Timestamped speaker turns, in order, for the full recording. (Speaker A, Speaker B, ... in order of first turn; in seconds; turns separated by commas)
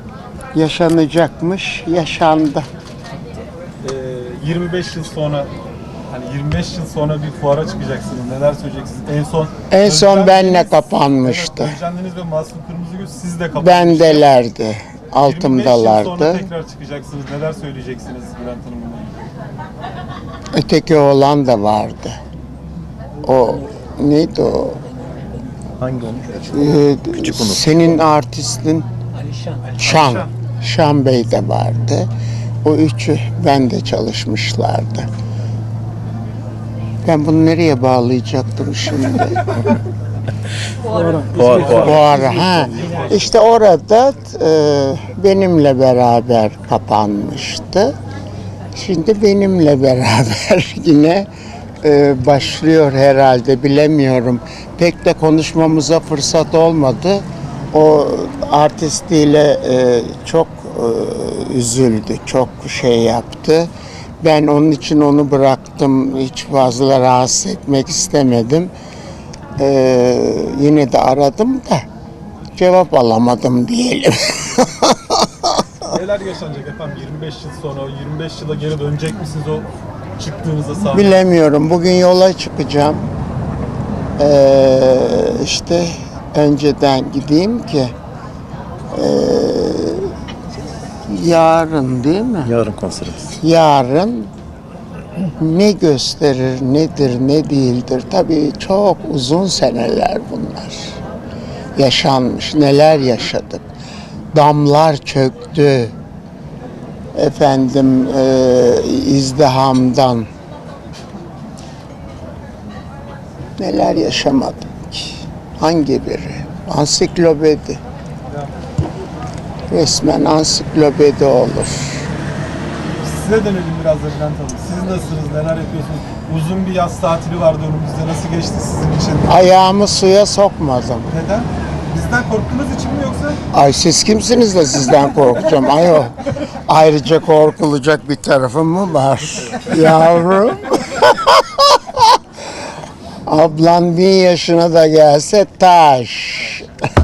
Speaker A: 0.5-2.7, Speaker B: 3.8-5.5, Speaker B: 6.1-14.2, Speaker A: 9.7-11.8, Speaker A: 13.5-16.4, Speaker B: 15.2-19.3, Speaker A: 20.5-22.2, Speaker A: 23.2-24.9, Speaker C: 25.8-27.7, Speaker A: 26.5-28.9, Speaker A: 29.7-32.1, Speaker A: 32.6-35.1, Speaker A: 37.0-39.8, Speaker C: 40.9-42.1, Speaker B: 41.0-43.3, Speaker A: 41.8-47.9, Speaker A: 48.7-51.3, Speaker A: 51.8-68.7, Speaker A: 69.6-71.8, Speaker A: 72.5-75.6, Speaker B: 75.8-81.2, Speaker A: 80.9-83.1, Speaker A: 84.2-87.9, Speaker A: 88.9-90.1, Speaker A: 91.1-92.5, Speaker C: 92.4-93.3, Speaker A: 93.3-94.3, Speaker A: 95.2-101.0, Speaker A: 101.8-103.6, Speaker A: 104.3-105.9, Speaker A: 107.1-110.3, Speaker A: 113.6-117.8, Speaker B: 118.3-118.5, Speaker A: 119.7-122.1, Speaker B: 122.9-129.4, Speaker A: 129.3-131.1, Speaker B: 131.1-133.4, Speaker A: 133.5-142.2, Speaker A: 143.3-146.7